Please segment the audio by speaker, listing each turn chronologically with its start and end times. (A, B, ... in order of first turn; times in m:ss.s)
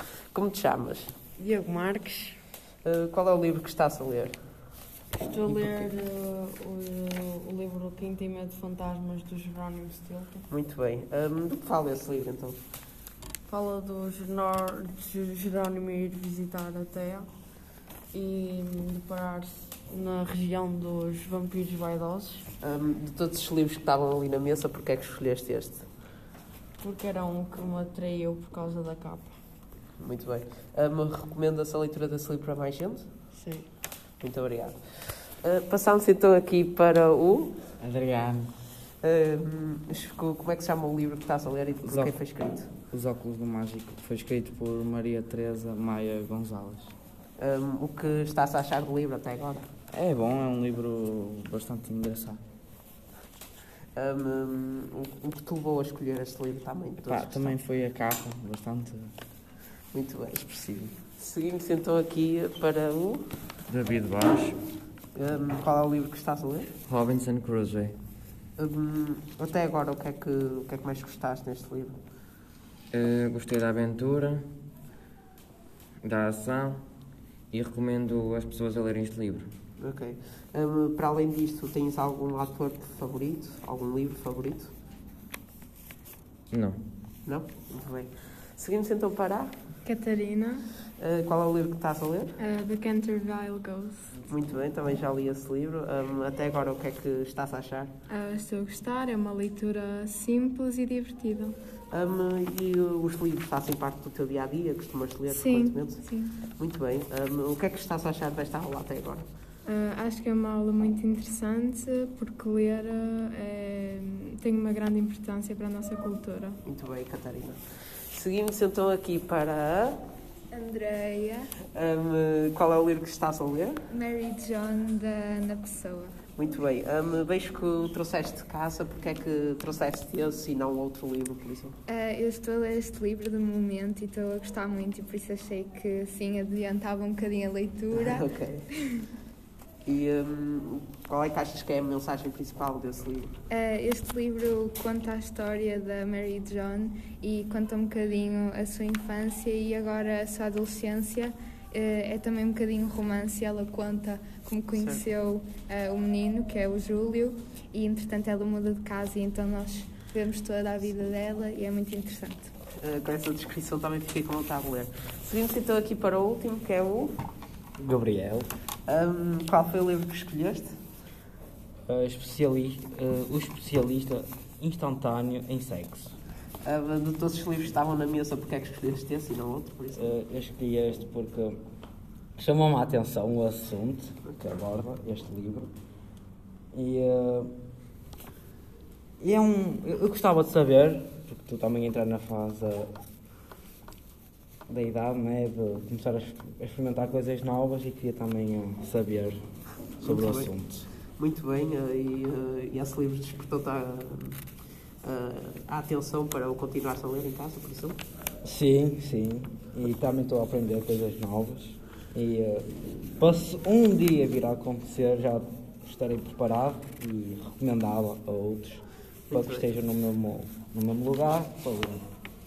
0:00.3-0:01.1 A
0:01.4-0:02.4 B
0:02.8-0:04.3 A
0:05.1-0:10.4 B
0:10.5-0:12.6 A
0:13.5-0:17.3 B
0:18.1-0:22.5 B
0:22.6-0:25.8 A
0:26.8-0:29.3 B
0:30.0-0:33.1 A
0:33.4-0:33.7 B
0:34.2-0:34.8 A
0:35.4-0:37.6 A
0:37.8-0:38.5 C
0:39.0-0:42.7 A
0:41.8-0:42.1 C
0:42.9-0:46.9 C
0:47.4-0:49.7 A
0:49.9-0:52.4 C
0:54.0-0:57.6 A
0:57.0-0:59.1 C
0:59.9-1:03.2 A
1:03.7-1:04.6 D
1:05.1-1:06.7 A
1:06.8-1:07.9 D
1:08.6-1:12.0 A
1:12.9-1:14.4 D
1:16.0-1:16.8 D
1:17.5-1:19.5 D
1:19.8-1:24.7 A
1:26.5-1:26.8 D
1:27.2-1:29.5 A
1:29.8-1:30.7 E
1:31.0-1:32.4 A
1:32.4-1:34.1 E
1:34.3-1:37.9 A
1:38.1-1:41.6 E
1:38.2-1:38.6 F
1:41.9-1:49.2 A
1:45.3-1:46.3 F
1:49.7-1:56.6 E
1:56.6-1:57.6 A
1:58.1-2:00.0 A
2:00.5-2:01.5 F
2:01.7-2:03.8 A
2:03.9-2:06.1 F
2:06.4-2:11.8 A
2:11.9-2:19.0 F
2:17.9-2:18.7 A
2:19.9-2:23.3 A
2:23.5-2:42.5 F
2:34.8-2:35.0 A
2:42.8-2:47.2 A
2:47.8-2:48.5 G
2:48.9-2:50.7 A
2:51.9-2:56.2 G
2:56.6-3:00.2 A
3:00.0-3:01.6 G
3:02.4-3:05.7 G
3:06.7-3:07.5 G
3:09.2-3:12.9 G
3:14.7-3:19.4 G
3:20.0-3:20.5 A
3:20.0-3:20.9 G
3:21.2-3:24.4 A
3:25.0-3:28.0 A
3:28.4-3:42.0 G
3:39.3-3:39.7 A